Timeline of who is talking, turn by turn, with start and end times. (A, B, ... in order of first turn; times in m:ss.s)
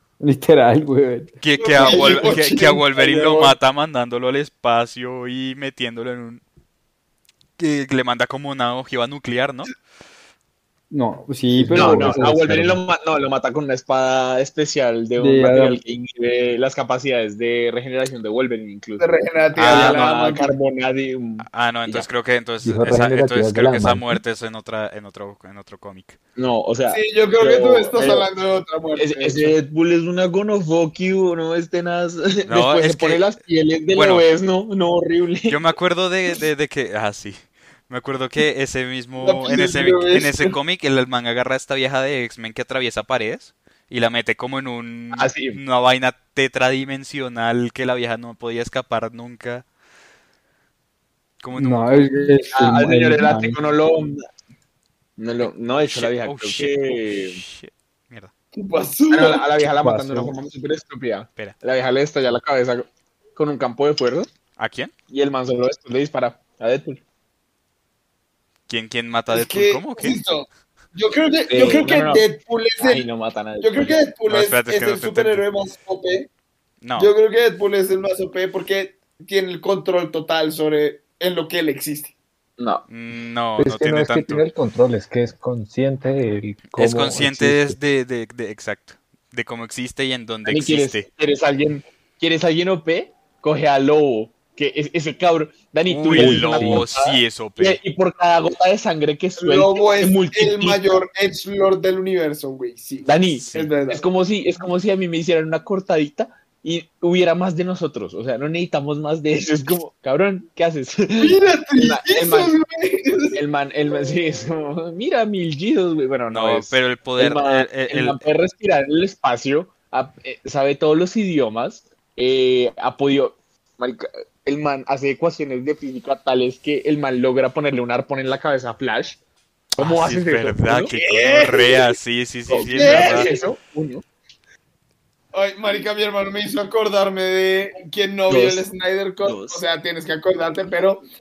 0:00.2-0:02.2 A
0:01.4-0:06.4 B
0:01.6-0:03.6 C
0:07.6-0:09.7 B
0:10.9-0:12.7 A
0:11.6-0:12.8 D
0:11.7-0:19.1 E
0:15.2-0:15.8 A
0:19.0-0:20.6 C
0:19.6-0:20.1 B
0:19.6-0:22.1 E
0:21.4-0:26.2 B
0:22.6-0:24.2 D
0:26.4-0:28.3 E
0:26.9-0:29.5 C
0:29.0-0:35.6 E
0:32.4-0:33.2 B
0:33.9-0:34.2 B
0:35.5-0:49.6 B
0:39.2-0:40.5 C
0:45.1-0:45.6 E
0:51.4-0:52.3 B
0:51.5-0:53.6 A
0:52.5-0:54.3 E
0:55.2-0:57.4 E
0:55.9-0:58.3 B
0:58.6-0:59.5 C
0:59.1-1:04.3 E
0:59.8-1:00.3 A
1:04.6-1:04.9 B
1:05.1-1:07.0 E
1:08.7-1:10.2 B
1:09.3-1:13.1 C
1:11.5-1:12.2 E
1:12.8-1:14.0 E
1:13.6-1:16.3 C
1:14.3-1:15.4 B
1:16.8-1:17.1 B
1:17.0-1:22.1 C
1:22.6-1:22.8 E
1:22.9-1:24.4 B
1:23.6-1:27.8 D
1:26.7-1:31.1 B
1:30.4-1:41.0 E
1:35.9-1:37.8 B
1:36.1-1:36.9 D
1:39.4-1:44.0 C
1:43.0-1:52.5 E
1:51.2-1:53.4 C
1:53.3-2:09.2 E
1:56.3-1:58.2 B
2:09.8-2:10.9 E
2:09.8-2:13.3 B
2:10.9-2:11.9 C
2:12.5-2:14.0 E
2:12.6-2:13.5 C
2:15.3-2:21.0 C
2:18.3-2:18.6 E
2:19.2-2:19.6 E